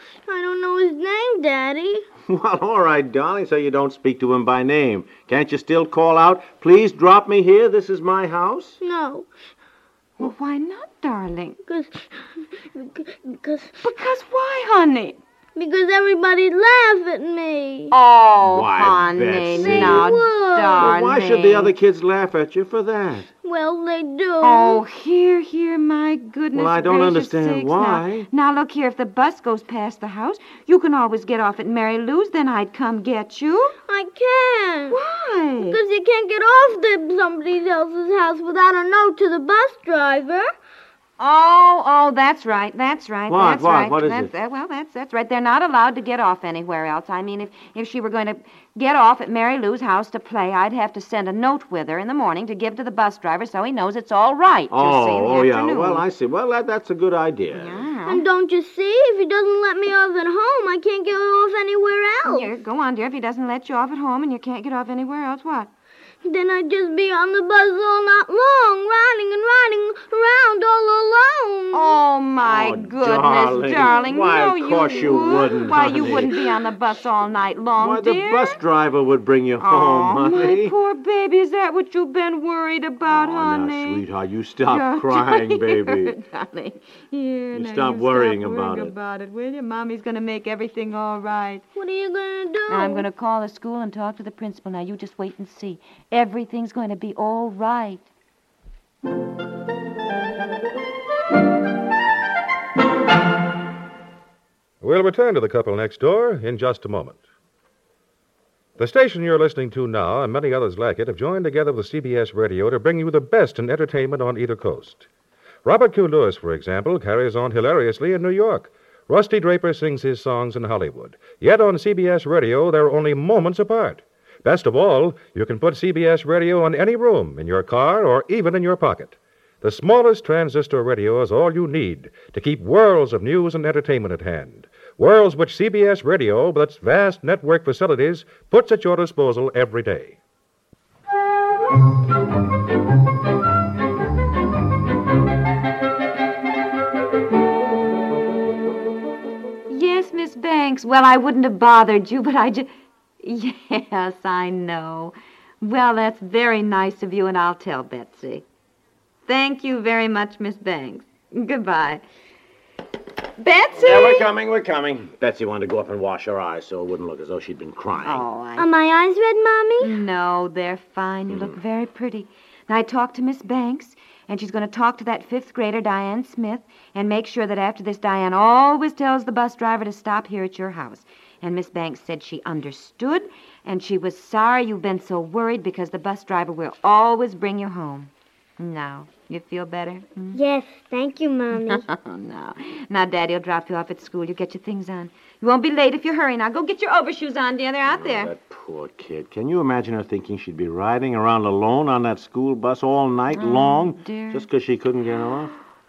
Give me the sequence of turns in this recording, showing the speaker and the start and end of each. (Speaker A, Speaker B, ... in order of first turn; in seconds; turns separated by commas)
Speaker A: 0.2-2.0, Speaker B: 2.3-8.8, Speaker A: 8.8-9.3, Speaker C: 10.2-11.6, Speaker A: 11.7-13.8, Speaker C: 13.8-15.2, Speaker A: 15.6-17.9, Speaker C: 17.9-21.7, Speaker B: 18.4-20.1, Speaker A: 19.6-20.9, Speaker B: 20.8-23.3, Speaker A: 23.4-24.8, Speaker C: 24.4-33.8, Speaker B: 26.5-28.3, Speaker A: 33.9-35.0, Speaker C: 34.9-35.8, Speaker A: 35.6-40.5, Speaker C: 41.2-56.0, Speaker B: 43.3-44.3, Speaker B: 54.7-57.9, Speaker C: 57.5-58.2, Speaker A: 58.0-62.5, Speaker C: 62.2-65.7, Speaker A: 66.2-72.0, Speaker C: 71.7-78.6, Speaker B: 72.4-76.5, Speaker A: 74.9-75.2, Speaker B: 77.8-80.8, Speaker C: 79.6-84.0, Speaker B: 83.0-86.2, Speaker C: 84.7-91.6, Speaker B: 87.5-88.9, Speaker A: 91.8-93.0, Speaker C: 92.7-98.1, Speaker D: 104.8-107.2, Speaker D: 108.8-115.1, Speaker D: 115.6-140.2, Speaker C: 149.7-152.7, Speaker C: 153.2-158.4, Speaker C: 159.2-162.0, Speaker C: 163.4-164.3, Speaker B: 163.8-168.2, Speaker C: 168.0-168.7, Speaker A: 168.6-170.0, Speaker C: 169.8-190.4, Speaker B: 171.3-171.6, Speaker A: 190.3-191.8, Speaker C: 191.6-198.3, Speaker B: 197.9-205.5, Speaker C: 203.3-204.5